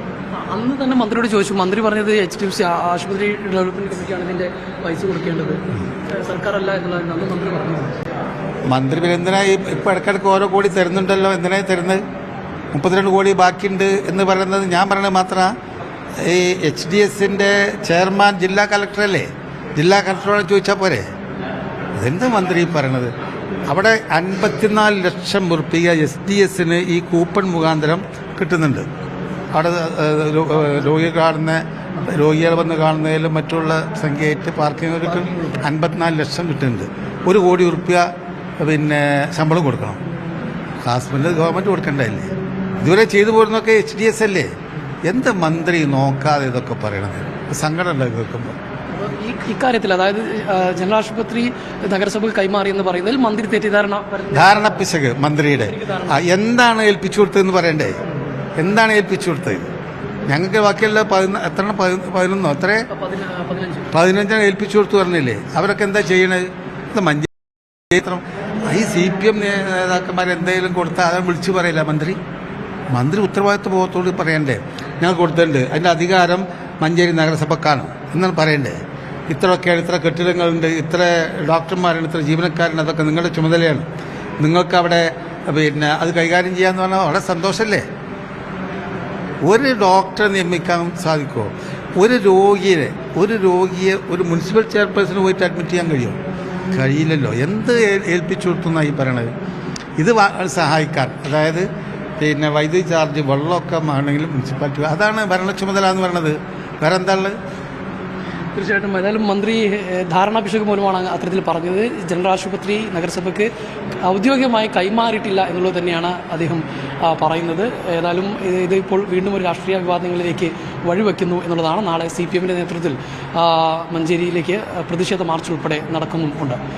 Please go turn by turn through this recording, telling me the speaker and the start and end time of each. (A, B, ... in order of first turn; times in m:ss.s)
0:00.3-0:08.0 A
0:08.7-0:12.0 B
0:12.7-0:15.5 B
0:16.2-0:21.1 B
0:22.0-0:23.1 B
0:23.7-0:28.9 B
0:29.5-0:40.0 B
0:40.9-0:44.5 B
0:45.1-0:48.6 B
0:48.9-0:54.9 A
0:54.3-0:58.0 B
0:55.6-0:56.2 A
0:58.6-0:59.7 B
1:00.3-1:02.9 B
1:02.9-1:03.9 A
1:03.9-1:07.3 B
1:07.9-1:12.2 B
1:12.9-1:18.8 B
1:19.3-1:23.9 B
1:24.4-1:27.9 B
1:29.5-1:36.2 B
1:36.7-1:39.3 B
1:40.0-1:41.7 B
1:42.2-1:47.4 B
1:48.6-1:53.5 A
1:54.0-2:06.6 A